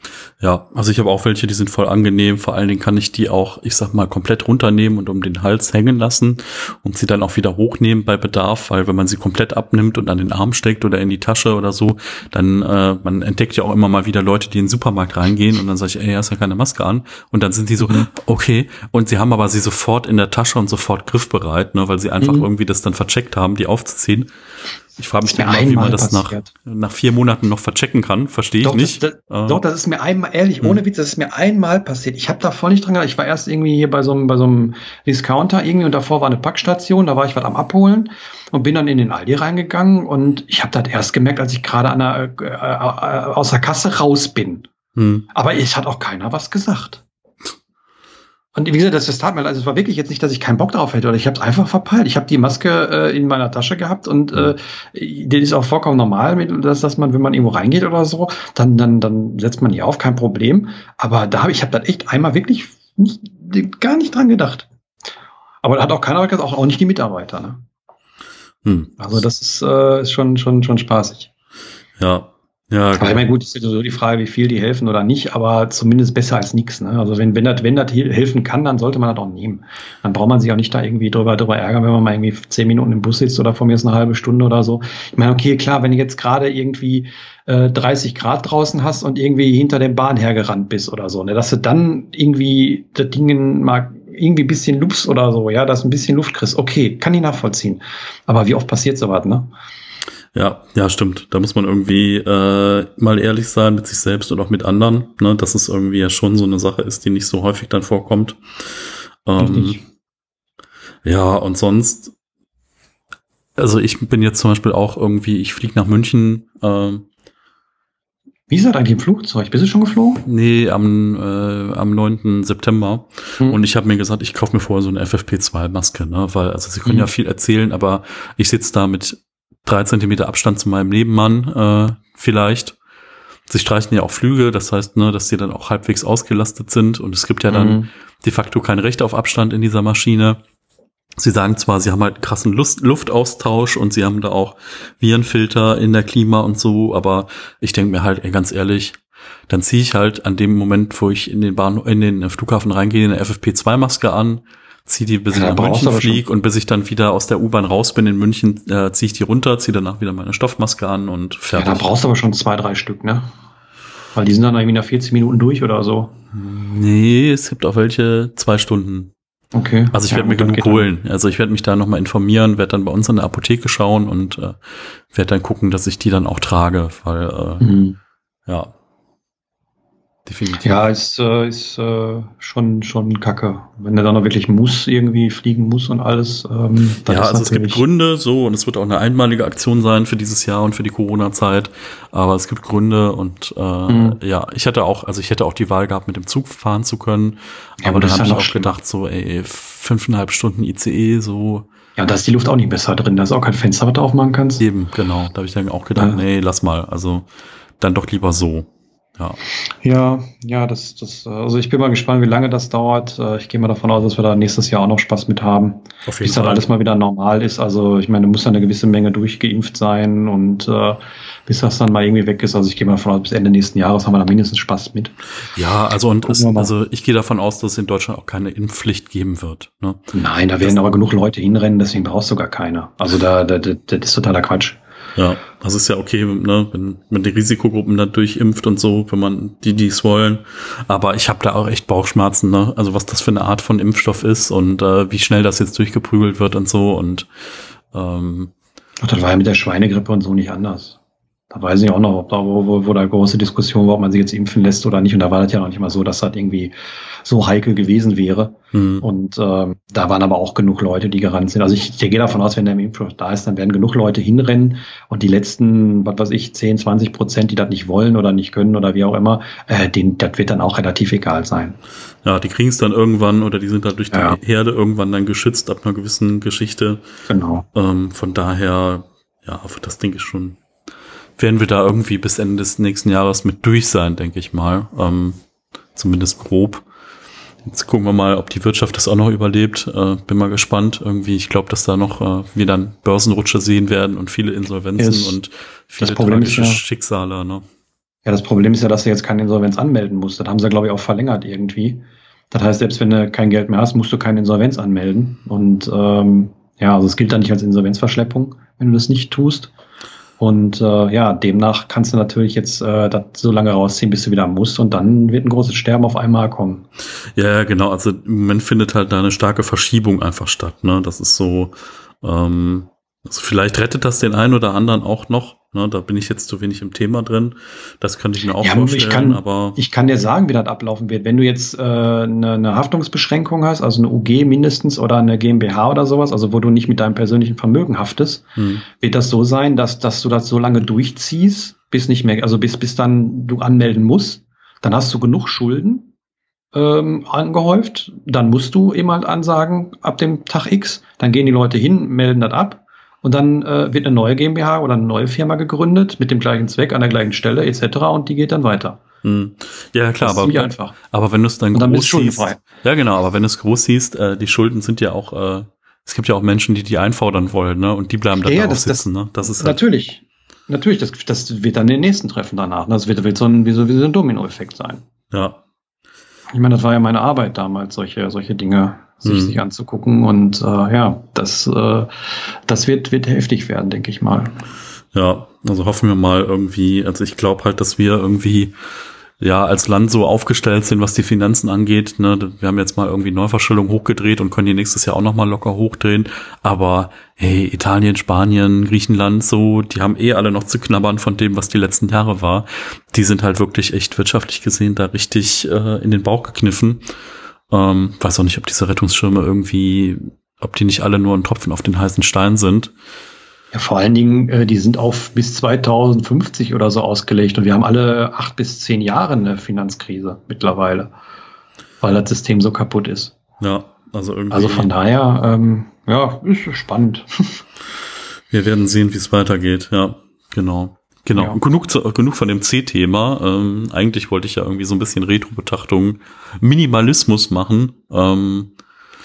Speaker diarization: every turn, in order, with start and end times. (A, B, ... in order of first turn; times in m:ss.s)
0:00.4-0:24.3 A
0:17.8-0:18.1 B
0:22.2-0:22.5 B
0:25.0-0:29.6 A
0:25.2-0:26.5 B
0:28.6-0:44.7 B
0:45.0-0:45.2 A
0:45.3-0:47.0 B
0:48.6-1:04.7 B
1:05.6-1:07.6 B
1:08.6-1:09.0 A
1:09.0-1:11.3 B
1:12.0-1:13.2 A
1:13.0-1:39.5 B
1:40.3-1:49.8 A
1:49.4-1:49.8 B
1:51.0-1:52.1 A
1:53.6-1:57.0 A
1:58.5-2:00.2 B
2:00.2-2:12.8 A
2:06.8-2:07.1 B
2:13.5-2:20.4 A
2:17.5-2:17.9 B
2:21.2-2:41.9 A
2:35.3-2:36.2 B
2:41.5-2:43.3 B
2:44.1-2:46.1 B
2:46.3-2:49.1 A
2:49.5-2:50.9 B
2:49.9-2:57.6 A
2:57.6-2:58.0 B
2:58.5-2:58.7 A
3:00.2-3:00.8 A
3:00.6-3:07.8 B
3:07.1-3:21.6 A
3:13.9-3:14.2 B
3:17.8-3:18.7 B
3:22.0-3:24.6 B
3:24.6-3:27.3 A
3:26.0-3:26.2 B
3:27.8-3:29.4 A
3:29.8-3:45.1 B
3:36.1-3:36.7 A
3:45.5-3:50.8 A
3:46.2-3:46.7 B
3:50.1-3:54.8 B
3:55.2-4:07.3 A
4:07.9-4:08.5 A
4:09.0-4:11.0 B
4:11.5-4:31.8 B
4:18.7-4:19.0 A
4:32.2-4:37.0 A
4:34.1-4:34.4 B
4:37.3-4:37.6 B
4:37.7-4:40.6 A
4:41.4-4:45.4 A
4:46.0-4:46.8 A
4:47.6-4:57.6 A
4:55.0-4:55.4 B
4:56.0-4:56.8 B
4:58.2-5:09.7 B
5:10.4-5:16.8 B
5:17.4-5:29.8 A
5:28.6-5:46.1 B
5:38.6-5:38.8 A
5:46.7-5:59.0 B
5:59.2-6:09.8 A
6:00.2-6:01.0 B
6:01.7-6:02.6 B
6:08.4-6:09.0 B
6:09.6-6:15.0 B
6:15.3-6:15.6 A
6:16.5-6:24.6 B
6:19.2-6:19.6 A
6:25.1-6:28.7 A
6:29.4-6:47.0 A
6:47.7-6:52.9 A
6:53.7-7:01.1 B
7:02.0-7:03.4 B
7:03.6-7:04.9 A
7:04.5-7:07.6 B
7:08.5-7:18.7 A